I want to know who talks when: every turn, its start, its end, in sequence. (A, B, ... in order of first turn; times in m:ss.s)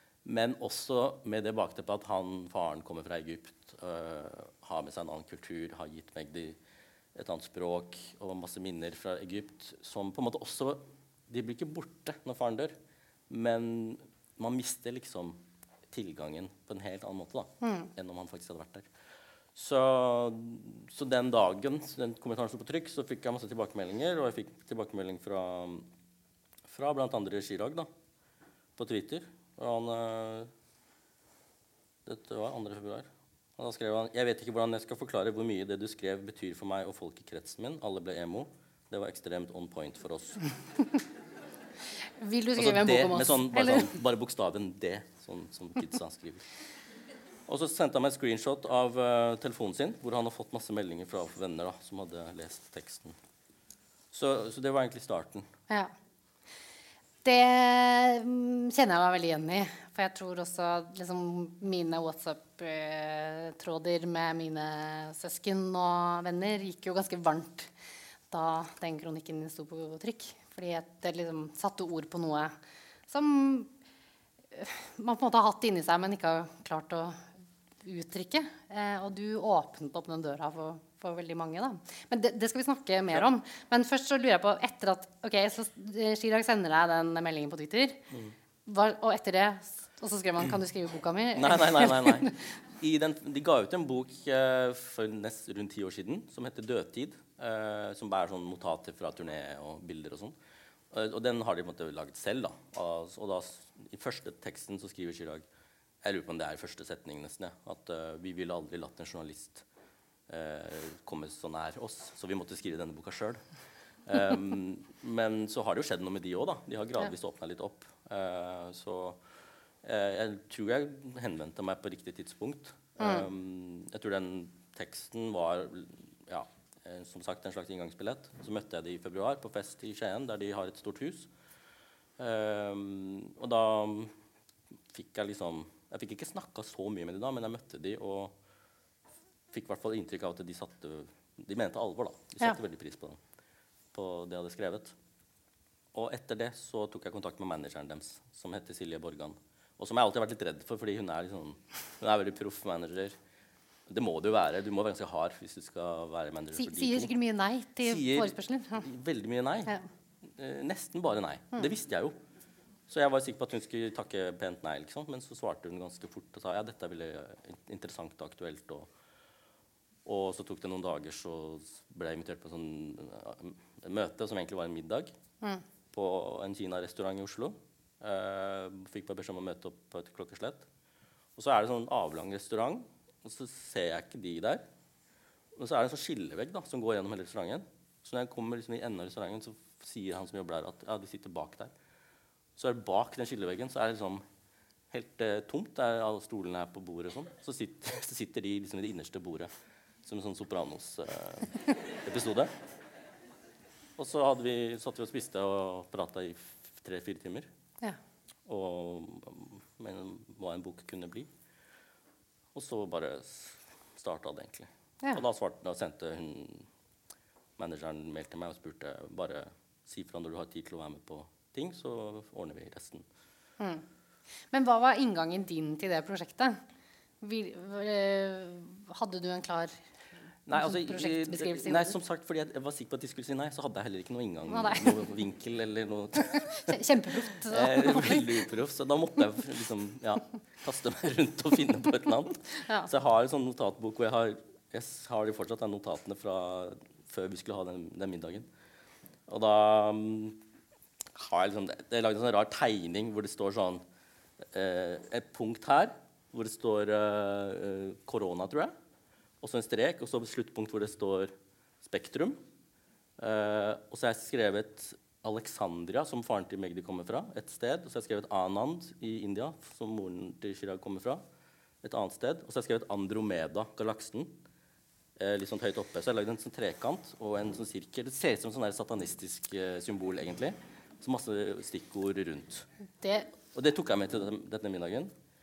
0:00.2-0:06.6 A
0:07.1-0:12.7 A
0:13.3-0:18.9 A
0:17.6-0:17.9 B
0:19.5-0:25.9 A
0:26.7-0:27.9 A
0:28.8-0:30.5 A
0:32.0-0:40.4 A
0:42.2-0:43.9 B
0:42.6-0:46.4 A
0:47.5-0:53.2 A
0:54.1-0:55.5 A
0:57.2-1:07.7 B
1:08.3-1:12.5 B
1:13.1-1:13.7 B
1:14.5-1:17.3 B
1:17.8-1:28.0 B
1:28.6-1:32.5 B
1:31.3-1:40.4 A
1:40.9-1:45.4 A
1:46.0-1:49.6 A
1:50.3-1:53.4 A
1:54.1-1:59.2 A
1:59.8-2:11.3 A
2:03.0-2:03.2 B
2:12.2-2:14.1 A
2:14.9-2:18.4 A
2:19.5-2:23.2 A
2:23.9-2:24.9 A
2:25.9-2:33.2 A
2:33.9-2:37.1 A
2:36.6-2:38.9 B
2:37.8-2:39.7 A
2:40.2-2:42.2 A
2:42.9-2:48.9 A
2:50.0-2:55.1 A
2:55.9-3:00.6 A
3:01.4-3:04.6 A
3:05.6-3:11.7 A
3:12.6-3:14.2 A
3:14.9-3:19.5 A
3:20.0-3:22.5 A
3:24.0-3:27.5 A
3:28.4-3:31.3 A
3:32.5-3:36.7 A
3:37.6-3:43.0 A
3:43.6-3:43.8 B
3:44.5-3:46.6 B
3:47.2-3:49.8 B
3:50.4-3:56.8 A
3:50.5-3:51.9 B
3:54.5-3:55.0 B
3:56.5-3:58.3 B
3:57.4-4:08.5 A
4:02.6-4:02.9 B
4:09.3-4:10.4 A
4:11.1-4:13.8 A
4:14.4-4:18.7 A
4:19.4-4:22.4 A
4:23.2-4:31.2 A
4:31.8-4:34.4 A
4:35.2-4:42.6 A
4:43.0-4:43.3 B
4:43.5-4:45.1 A